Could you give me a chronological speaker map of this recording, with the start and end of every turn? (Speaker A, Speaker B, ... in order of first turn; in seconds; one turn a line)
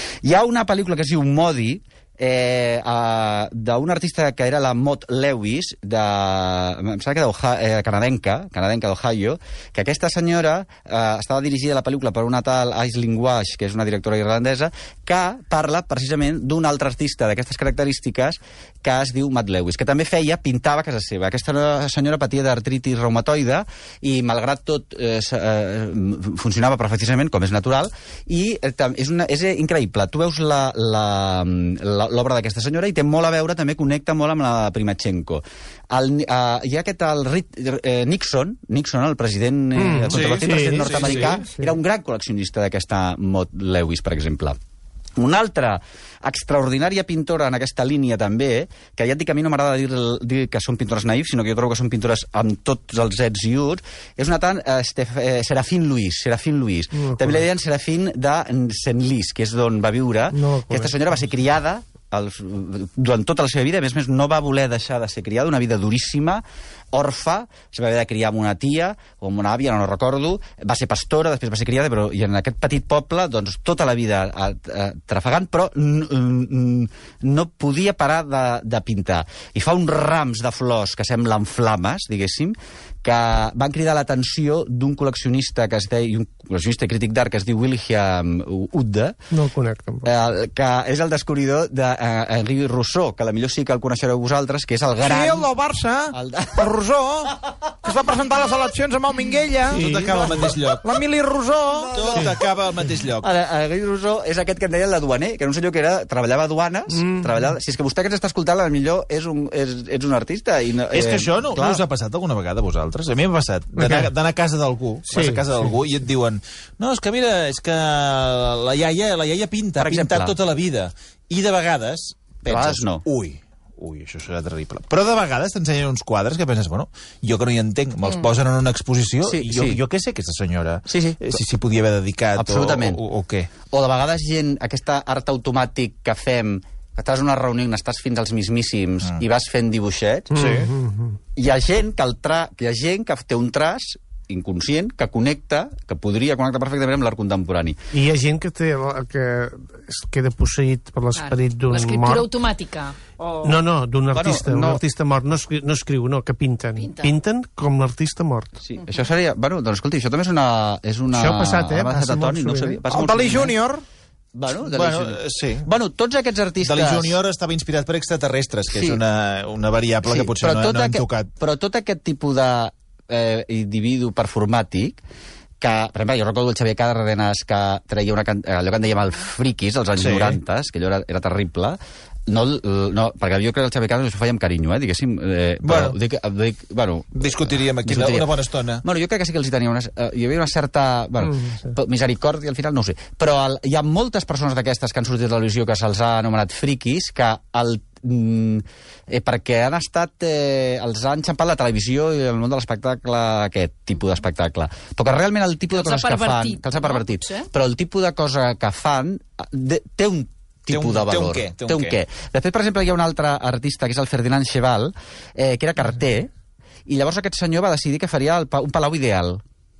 Speaker A: 0.2-44.6
Speaker B: 39.8-41.8
Speaker C: 40.1-41.4
Speaker A: 45.2-89.2
Speaker B: 56.9-57.4
Speaker B: 60.3-61.0
Speaker B: 89.3-90.1
Speaker A: 90.0-95.5
Speaker D: 95.0-99.8
Speaker A: 96.1-96.7
Speaker B: 99.7-100.5
Speaker C: 99.8-100.9
Speaker D: 100.7-102.0
Speaker A: 101.7-102.3
Speaker C: 101.9-103.3
Speaker A: 103.2-111.8
Speaker B: 106.9-107.5
Speaker C: 110.9-133.5
Speaker B: 113.8-114.1
Speaker B: 115.1-115.4
Speaker A: 119.8-120.4
Speaker A: 122.5-123.0
Speaker A: 129.2-129.8
Speaker A: 130.9-131.3
Speaker A: 132.4-133.0
Speaker A: 133.7-140.3
Speaker B: 140.3-141.2
Speaker C: 140.3-140.7
Speaker A: 141.4-147.8
Speaker B: 147.9-152.3
Speaker E: 151.2-153.0
Speaker B: 153.4-158.5
Speaker A: 154.1-154.8
Speaker E: 156.8-157.1
Speaker A: 158.6-163.6
Speaker B: 161.1-162.8
Speaker D: 162.9-163.8
Speaker A: 164.3-167.2
Speaker C: 164.7-165.7
Speaker C: 166.6-171.3
Speaker A: 168.7-169.0
Speaker A: 170.1-175.0
Speaker A: 175.6-216.3
Speaker C: 180.0-180.4
Speaker C: 185.6-185.9
Speaker C: 187.1-188.8
Speaker B: 191.2-191.7
Speaker E: 205.7-207.5
Speaker C: 210.7-212.0
Speaker A: 216.9-219.4